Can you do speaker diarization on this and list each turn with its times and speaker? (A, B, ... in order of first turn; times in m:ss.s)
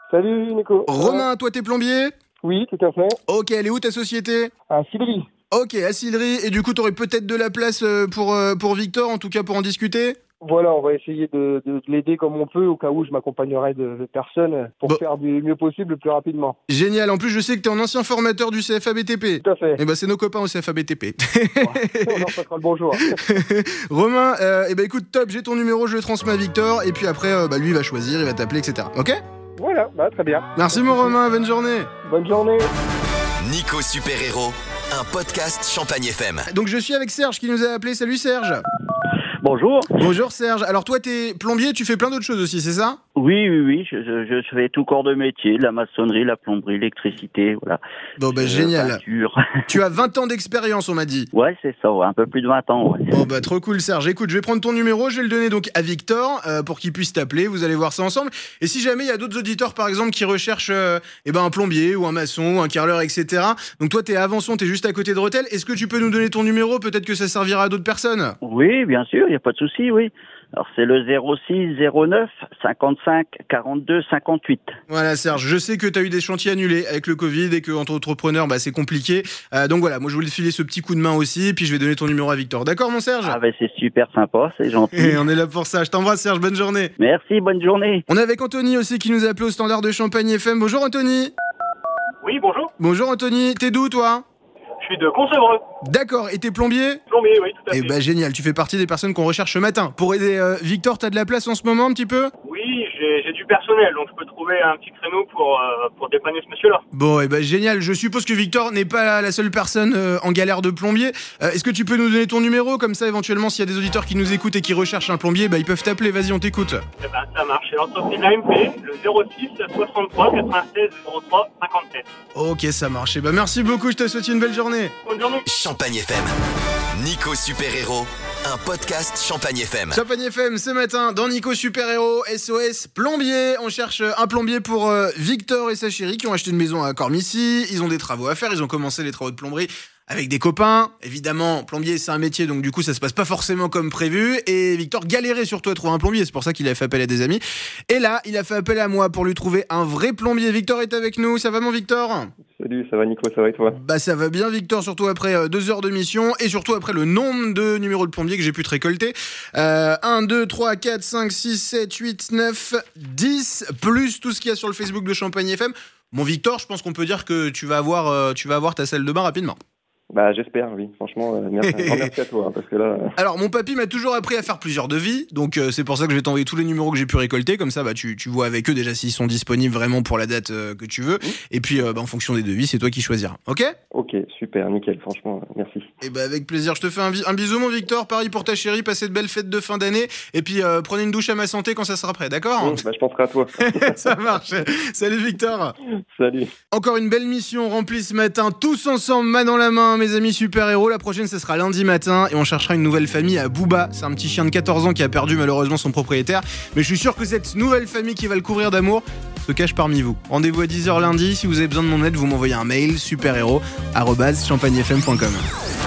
0:00.1-0:01.3 A
0:00.9-0:02.1 B
0:02.4-0:03.2 A
0:03.3-0:04.5 B
0:04.7-0:05.3 A
0:05.5-0:10.2 B
0:10.4-0:16.6 A
0:16.7-0:22.3 B
0:19.4-0:19.8 A
0:21.6-0:23.2 A
0:22.9-0:29.2 B
0:29.6-0:31.1 A
0:30.6-0:31.9 B
0:32.0-0:32.7 A
0:33.4-0:36.5 C
0:36.5-0:38.6 B
0:39.4-0:40.0 D
0:40.0-0:43.0 B
0:43.2-0:49.4 D
0:48.2-0:49.0 B
0:49.7-0:51.3 B
0:51.3-0:53.2 D
0:53.1-1:08.4 B
1:08.4-1:14.8 D
1:14.9-1:23.4 B
1:23.2-1:25.2 D
1:24.9-1:26.9 B
1:27.0-1:28.1 D
1:28.1-1:31.3 B
1:32.2-1:32.7 E
1:32.8-1:34.2 B
1:34.8-1:35.6 E
1:35.8-1:37.0 B
1:37.1-1:37.9 E
1:37.7-1:42.3 B
1:42.4-1:46.8 E
1:46.9-1:56.8 B
1:57.0-2:02.1 E
2:02.4-2:04.9 B
2:05.0-2:05.4 E
2:05.4-2:06.3 C
2:06.9-2:10.0 C
2:09.9-2:32.3 B
2:32.6-2:33.8 F
2:33.7-2:49.6 B
2:50.1-2:53.1 F
2:51.6-2:52.1 B
2:53.2-3:03.8 B
3:03.9-3:05.8 F
3:06.0-3:12.8 B
3:12.6-3:13.6 F
3:13.6-3:15.8 B
3:16.1-3:16.5 F
3:16.7-3:35.5 B